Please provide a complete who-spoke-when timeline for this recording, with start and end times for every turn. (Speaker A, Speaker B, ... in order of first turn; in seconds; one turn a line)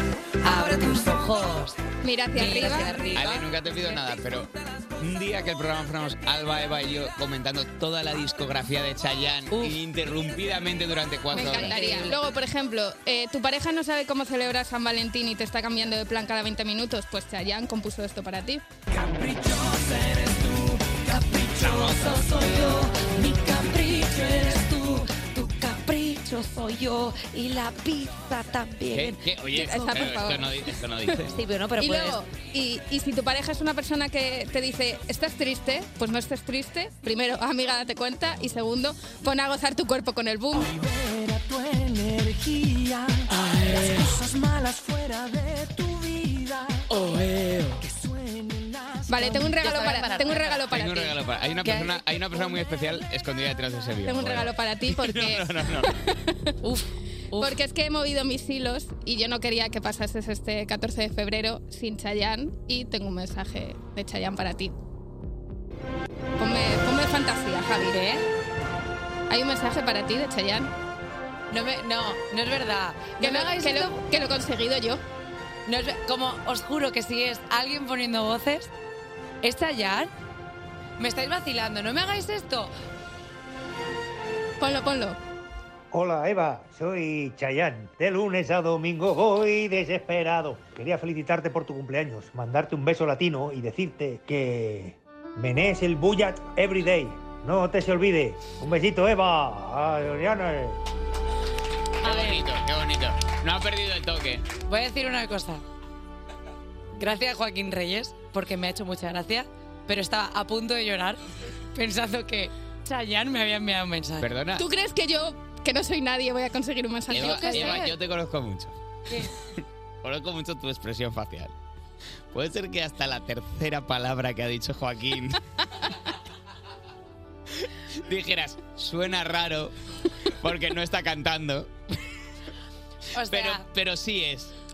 Speaker A: 0.4-1.8
Speaker B: 2.0-3.0
Speaker A: 2.3-3.5
Speaker C: 3.1-12.1
Speaker A: 9.5-9.8
Speaker A: 11.3-12.2
Speaker B: 11.3-18.6
Speaker D: 18.9-22.7
Speaker A: 21.6-29.2
Speaker C: 28.9-31.3
Speaker B: 29.5-30.6
Speaker A: 31.3-32.2
Speaker B: 31.8-40.7
Speaker D: 40.5-49.7
Speaker B: 49.1-51.2
Speaker A: 49.4-50.7
Speaker C: 50.7-55.9
Speaker A: 51.6-52.0
Speaker B: 54.0-56.5
Speaker A: 56.6-57.6
Speaker B: 57.4-64.7
Speaker B: 66.4-68.0
Speaker A: 67.8-68.3
Speaker B: 69.3-70.7
Speaker A: 71.5-74.0
Speaker B: 73.2-75.0
Speaker A: 75.7-78.7
Speaker A: 79.4-80.1
Speaker A: 81.0-82.7
Speaker B: 84.6-85.2
Speaker E: 85.9-100.8
Speaker C: 102.0-104.5
Speaker A: 102.0-102.4
Speaker A: 104.7-105.6
Speaker A: 107.0-111.2
Speaker A: 111.8-114.3
Speaker C: 114.2-114.6
Speaker B: 114.6-117.9
Speaker A: 117.1-117.9
Speaker C: 117.1-118.7
Speaker C: 120.0-121.5
Speaker C: 122.3-125.4
Speaker C: 127.6-129.7
Speaker C: 130.3-131.7
Speaker A: 133.2-133.6
Speaker C: 133.2-134.5